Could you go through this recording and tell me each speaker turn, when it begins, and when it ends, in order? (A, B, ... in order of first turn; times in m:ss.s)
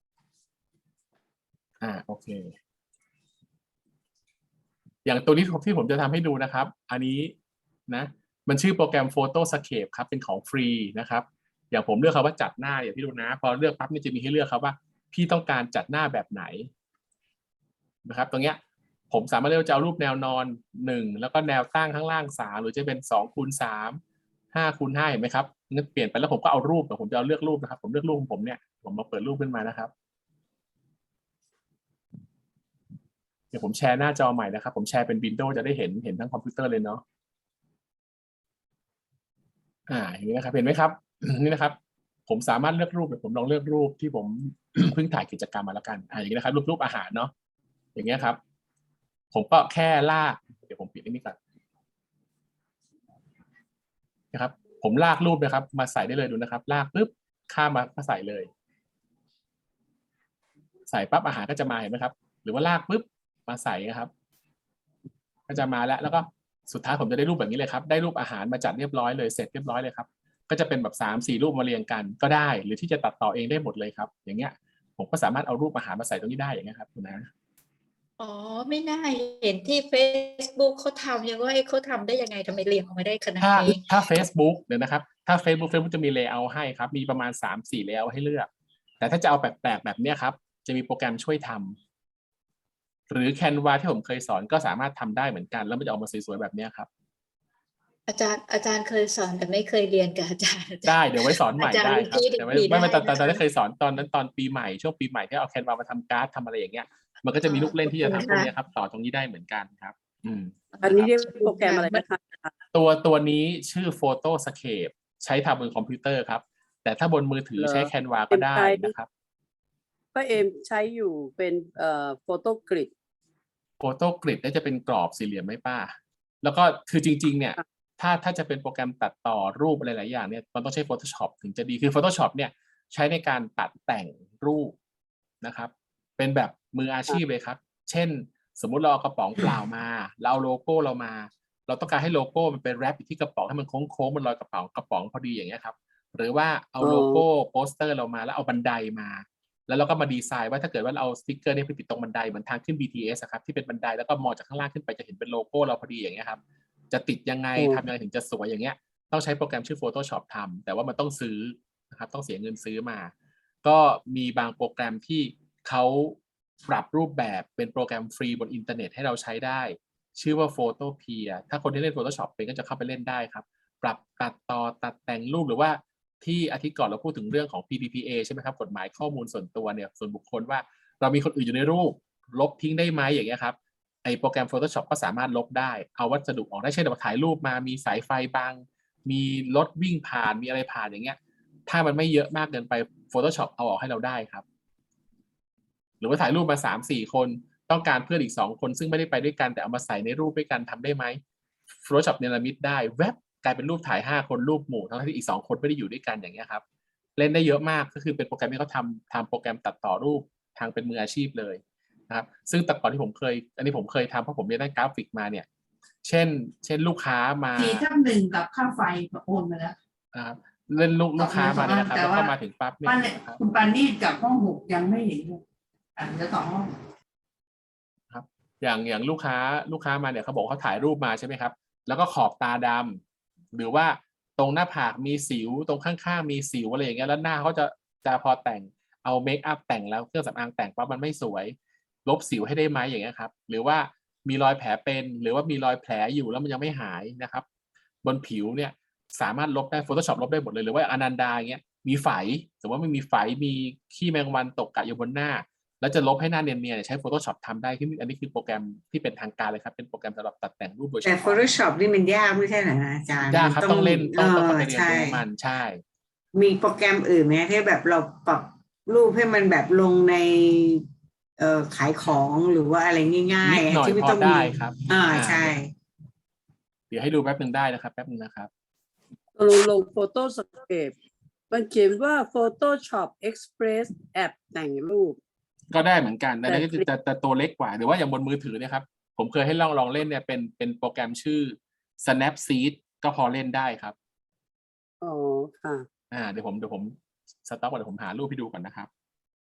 0:01.8-0:02.5 A
0:05.0-0:07.3 A
0:07.9-0:16.7 A
0:18.0-0:18.6 A
0:19.1-0:24.0 A
0:24.5-0:29.9 A
0:33.5-0:37.0 A
0:39.9-0:41.8 A
0:42.3-0:47.3 A
0:48.0-0:48.4 A
0:49.3-0:51.4 A
0:54.3-0:58.5 A
1:00.9-1:04.1 A
1:05.5-1:17.3 A
1:18.2-1:23.9 B
1:23.4-1:28.5 A
1:29.0-1:31.8 A
1:33.1-1:36.9 A
1:38.1-1:43.4 B
1:40.8-1:51.1 A
1:47.4-1:48.5 B
1:50.7-1:52.0 B
1:50.8-1:52.5 C
1:52.7-1:59.1 A
1:57.6-1:58.9 C
2:00.2-2:02.9 C
2:03.8-2:14.8 A
2:15.4-2:43.1 A
2:26.8-2:27.2 C
2:37.6-2:37.8 C
2:43.6-3:14.4 A
3:16.0-3:21.2 A
3:21.8-3:26.6 A
3:27.2-3:35.5 A
3:36.0-3:37.8 A
3:37.5-3:39.8 D
3:40.1-3:43.4 A
3:41.2-3:45.4 D
3:46.0-3:46.7 D
3:48.1-3:53.0 A
3:53.5-4:07.4 A
4:08.0-4:21.5 A
4:21.0-4:25.2 E
4:23.3-4:25.8 A
4:26.3-4:30.8 E
4:31.4-4:35.7 E
4:33.4-4:35.6 A
4:36.9-4:38.5 A
4:39.4-4:40.9 C
4:41.5-4:45.2 C
4:45.7-4:54.0 A
4:46.4-4:46.8 C
4:55.0-4:55.8 C
4:56.1-4:58.9 A